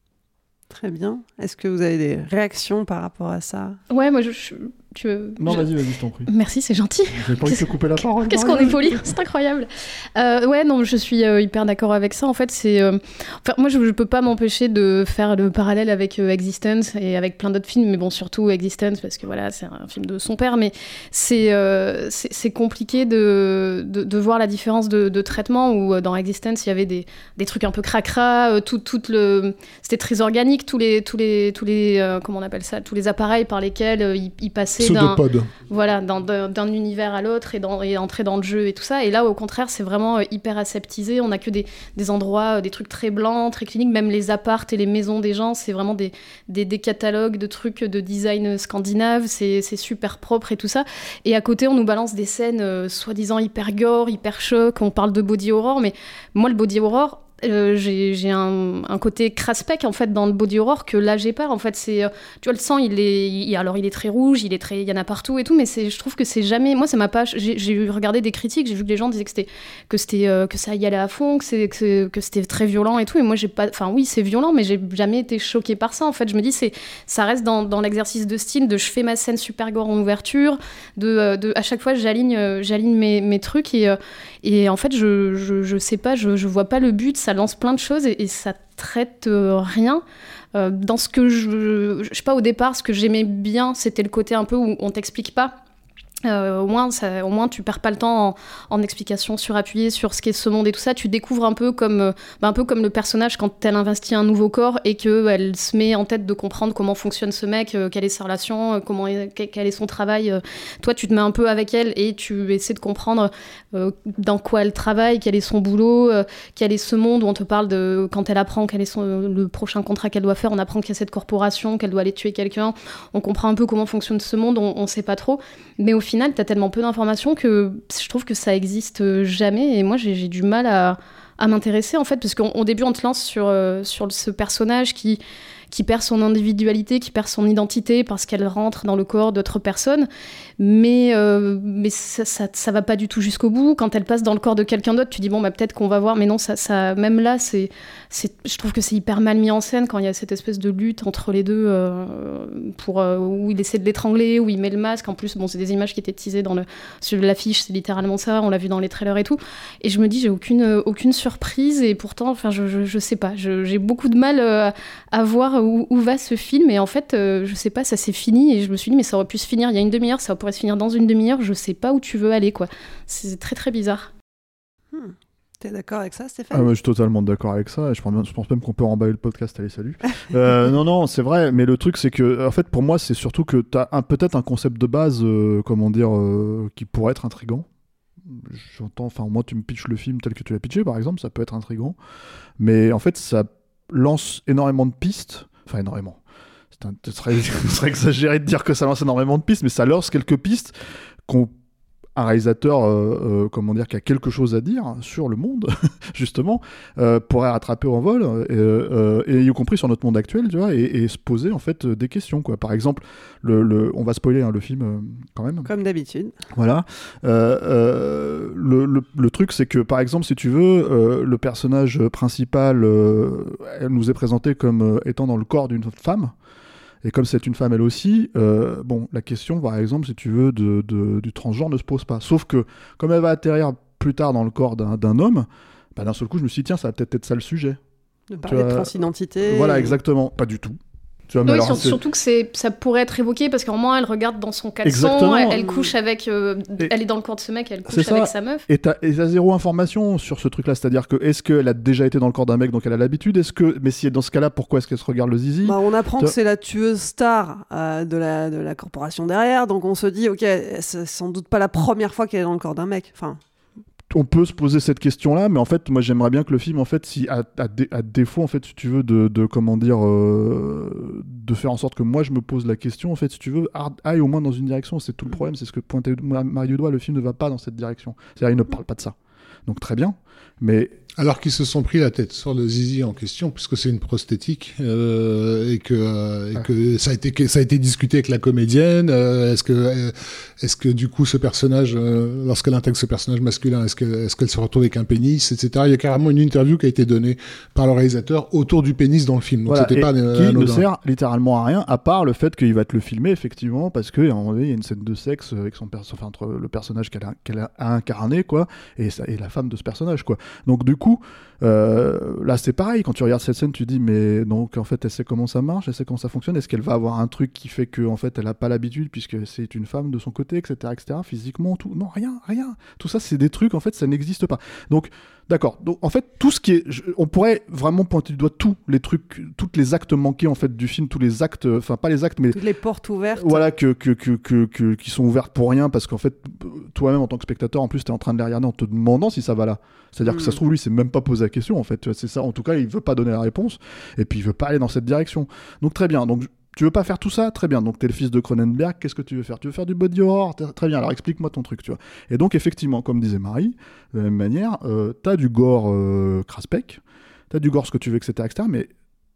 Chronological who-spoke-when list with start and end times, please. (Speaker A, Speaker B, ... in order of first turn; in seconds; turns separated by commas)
Speaker A: 0.7-3.8, Speaker B: 3.9-5.7, Speaker C: 5.4-6.3, Speaker B: 6.3-90.0, Speaker C: 7.2-9.1, Speaker D: 34.8-35.5, Speaker B: 90.5-95.6, Speaker B: 96.2-135.2, Speaker B: 135.7-140.1, Speaker B: 140.6-174.1, Speaker A: 174.9-176.7, Speaker C: 176.5-187.7, Speaker C: 188.2-192.0, Speaker C: 192.6-196.2, Speaker C: 196.7-200.7, Speaker C: 201.2-201.5, Speaker C: 202.2-215.7, Speaker A: 215.6-216.3, Speaker C: 216.6-226.3, Speaker C: 227.0-237.8, Speaker A: 238.3-240.0, Speaker C: 238.4-242.0, Speaker B: 241.5-248.6, Speaker C: 244.8-245.7, Speaker A: 245.6-245.9, Speaker C: 247.9-256.3, Speaker A: 255.6-263.4, Speaker C: 264.1-279.1, Speaker C: 279.7-280.9, Speaker D: 281.2-300.8, Speaker C: 299.7-332.6, Speaker A: 332.5-333.7, Speaker C: 333.4-358.9, Speaker A: 340.2-340.6